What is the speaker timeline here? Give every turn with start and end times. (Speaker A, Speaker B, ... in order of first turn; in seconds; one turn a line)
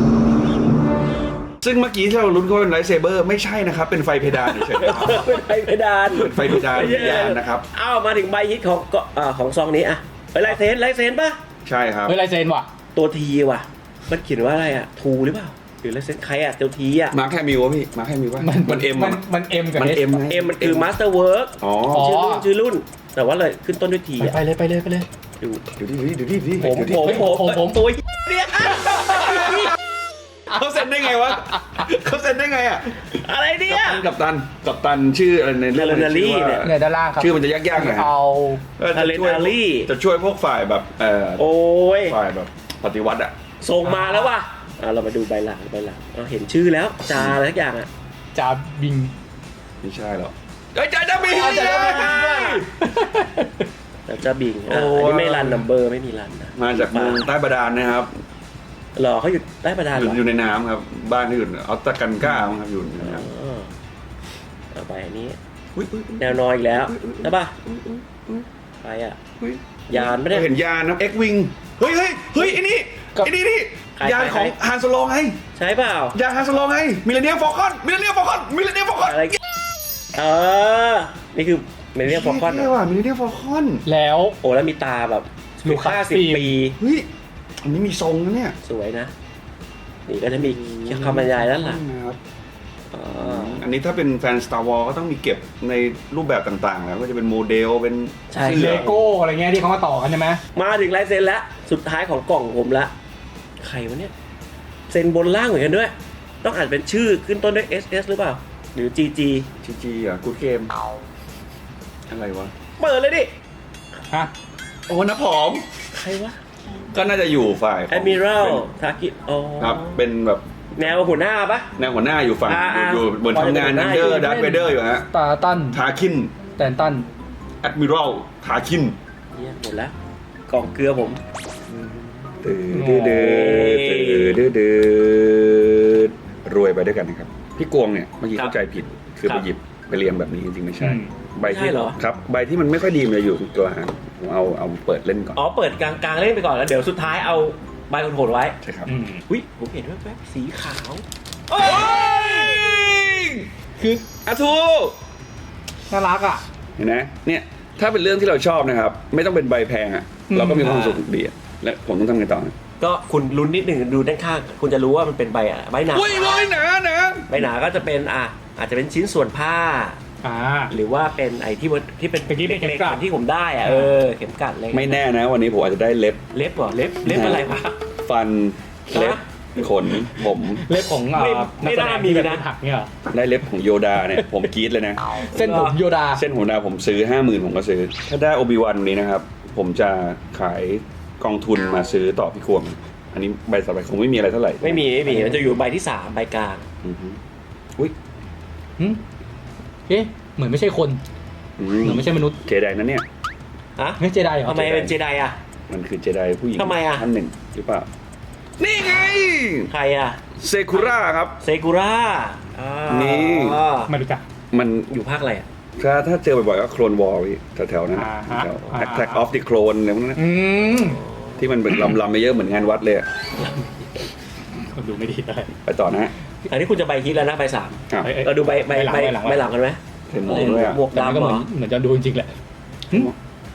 Speaker A: 1.6-5.2
Speaker B: 4.5-11.4
Speaker A: 6.1-7.7
Speaker A: 11.6-12.2
Speaker C: 12.1-12.7
Speaker B: 12.9-17.1
Speaker A: 17.1-19.2
Speaker C: 18.4-20.2
Speaker A: 19.7-20.9
Speaker B: 20.3-24.4
Speaker A: 21.6-22.1
Speaker C: 21.9-22.4
Speaker C: 24.2-25.1
Speaker A: 25.8-27.3
Speaker B: 26.6-29.7
Speaker C: 27.0-27.8
Speaker A: 28.9-29.7
Speaker A: 30.5-33.1
Speaker B: 33.1-34.0
Speaker A: 33.7-38.1
Speaker B: 35.7-36.6
Speaker C: 36.6-38.6
Speaker A: 38.8-41.4
Speaker B: 38.9-39.9
Speaker B: 41.4-42.1
Speaker A: 42.0-43.3
Speaker B: 43.6-47.9
Speaker C: 43.8-44.3
Speaker A: 47.1-47.4
Speaker C: 48.3-49.1
Speaker A: 49.8-52.6
Speaker C: 51.2-53.6
Speaker B: 51.6-52.6
Speaker B: 54.1-57.3
Speaker A: 54.7-55.6
Speaker A: 56.5-58.2
Speaker B: 59.0-60.2
Speaker A: 59.9-63.3
Speaker B: 63.0-63.7
Speaker B: 64.7-65.4
Speaker A: 65.7-68.4
Speaker B: 66.2-67.5
Speaker B: 68.8-69.2
Speaker A: 69.4-75.4
Speaker B: 69.9-70.5
Speaker B: 74.0-74.5
Speaker B: 75.6-76.2
Speaker A: 76.1-79.2
Speaker B: 79.0-79.3
Speaker B: 80.1-82.7
Speaker A: 82.0-83.8
Speaker C: 83.8-84.4
Speaker B: 84.4-86.8
Speaker C: 85.6-86.5
Speaker A: 86.8-87.1
Speaker A: 87.6-88.5
Speaker B: 88.6-89.1
Speaker B: 90.1-91.8
Speaker A: 90.3-92.2
Speaker B: 92.9-93.7
Speaker A: 93.2-99.0
Speaker B: 98.3-99.0
Speaker C: 98.4-100.4
Speaker B: 100.5-102.9
Speaker B: 103.6-104.1
Speaker B: 104.9-109.5
Speaker A: 109.6-110.7
Speaker A: 112.1-112.5
Speaker B: 112.8-113.3
Speaker A: 114.9-115.7
Speaker B: 116.0-116.4
Speaker A: 116.9-118.6
Speaker B: 117.9-120.0
Speaker A: 119.6-121.0
Speaker B: 120.8-121.7
Speaker A: 121.8-125.1
Speaker B: 122.5-124.2
Speaker C: 124.0-125.8
Speaker A: 125.7-126.3
Speaker C: 126.5-127.1
Speaker A: 127.6-128.9
Speaker B: 129.3-129.9
Speaker B: 130.5-131.2
Speaker A: 131.7-145.4
Speaker C: 132.7-133.3
Speaker B: 133.1-134.5
Speaker C: 140.8-141.1
Speaker B: 141.4-142.0
Speaker B: 145.3-148.6
Speaker A: 148.6-148.9
Speaker C: 148.9-149.2
Speaker B: 149.3-151.0
Speaker A: 151.5-153.5
Speaker A: 154.0-154.9
Speaker C: 155.9-156.4
Speaker A: 156.8-162.5
Speaker C: 160.3-161.0
Speaker B: 162.8-166.4
Speaker A: 165.9-167.4
Speaker B: 167.3-170.0
Speaker C: 170.2-170.7
Speaker B: 170.7-174.9
Speaker C: 172.2-173.0
Speaker C: 173.6-173.9
Speaker A: 174.7-176.2
Speaker B: 176.3-177.8
Speaker A: 177.0-177.5
Speaker A: 178.0-180.6
Speaker B: 178.9-179.2
Speaker C: 180.1-182.9
Speaker B: 181.1-182.4
Speaker A: 183.1-185.0
Speaker C: 185.1-186.2
Speaker B: 185.3-185.8
Speaker A: 186.1-195.1
Speaker B: 194.6-196.7
Speaker C: 195.1-195.4
Speaker A: 196.8-197.2
Speaker C: 199.9-201.0
Speaker A: 201.6-203.0
Speaker C: 201.8-202.3
Speaker B: 203.8-205.4
Speaker C: 204.0-204.9
Speaker A: 205.7-207.9
Speaker B: 206.6-207.0
Speaker A: 208.6-209.7
Speaker B: 209.7-210.2
Speaker A: 210.4-211.4
Speaker B: 210.7-213.9
Speaker A: 212.9-213.6
Speaker C: 213.9-214.2
Speaker A: 214.5-214.9
Speaker B: 214.9-215.4
Speaker A: 215.8-220.2
Speaker C: 217.9-219.2
Speaker C: 220.2-221.0
Speaker B: 221.0-221.4
Speaker A: 221.4-223.1
Speaker C: 223.4-223.8
Speaker C: 224.6-225.5
Speaker A: 225.6-226.1
Speaker B: 226.5-231.5
Speaker A: 227.9-228.2
Speaker C: 228.0-229.4
Speaker A: 230.1-230.8
Speaker C: 230.3-232.3